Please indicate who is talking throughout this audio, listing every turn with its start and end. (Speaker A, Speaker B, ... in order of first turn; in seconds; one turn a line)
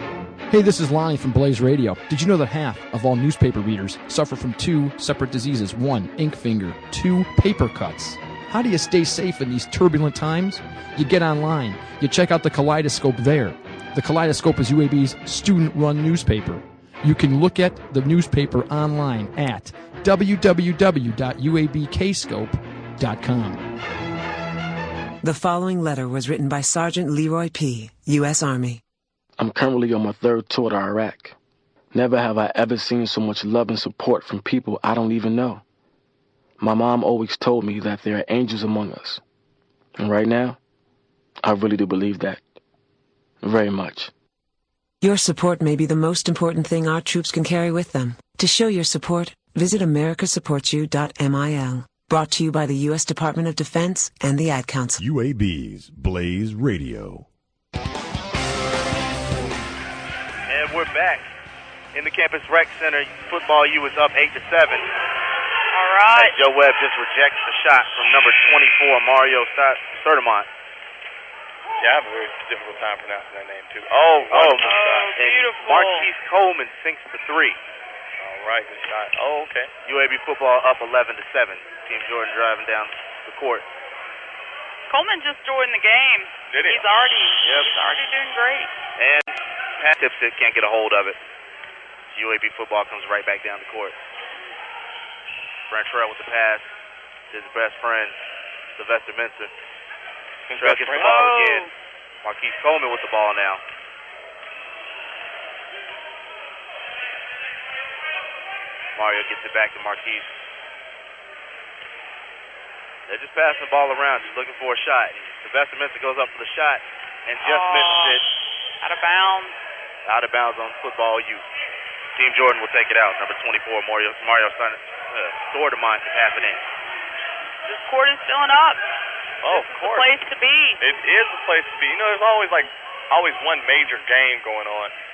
Speaker A: 0.5-23.6
Speaker B: 25.2-28.8
Speaker C: 29.4-31.3
Speaker C: 31.9-35.6
Speaker C: 36.6-39.2
Speaker C: 40.0-40.6
Speaker C: 41.4-42.4
Speaker C: 43.4-44.1
Speaker B: 45.0-55.0
Speaker D: 55.0-57.2
Speaker E: 60.5-61.3
Speaker E: 61.9-64.9
Speaker F: 65.7-66.4
Speaker E: 66.1-70.5
Speaker G: 71.8-75.2
Speaker E: 74.3-77.6
Speaker F: 74.6-76.1
Speaker G: 78.2-79.7
Speaker E: 79.8-83.6
Speaker F: 84.9-88.7
Speaker G: 86.5-86.9
Speaker E: 87.4-87.7
Speaker E: 89.0-91.2
Speaker E: 92.1-94.0
Speaker E: 95.7-96.7
Speaker E: 97.3-98.2
Speaker E: 98.8-99.5
Speaker G: 100.5-101.4
Speaker E: 100.6-101.7
Speaker F: 101.0-101.7
Speaker E: 102.2-103.6
Speaker E: 109.0-110.3
Speaker E: 113.1-118.2
Speaker F: 117.4-118.2
Speaker F: 118.8-119.6
Speaker E: 120.0-121.4
Speaker E: 122.2-126.6
Speaker F: 127.7-128.8
Speaker G: 129.4-130.1
Speaker F: 129.4-130.8
Speaker G: 130.8-134.9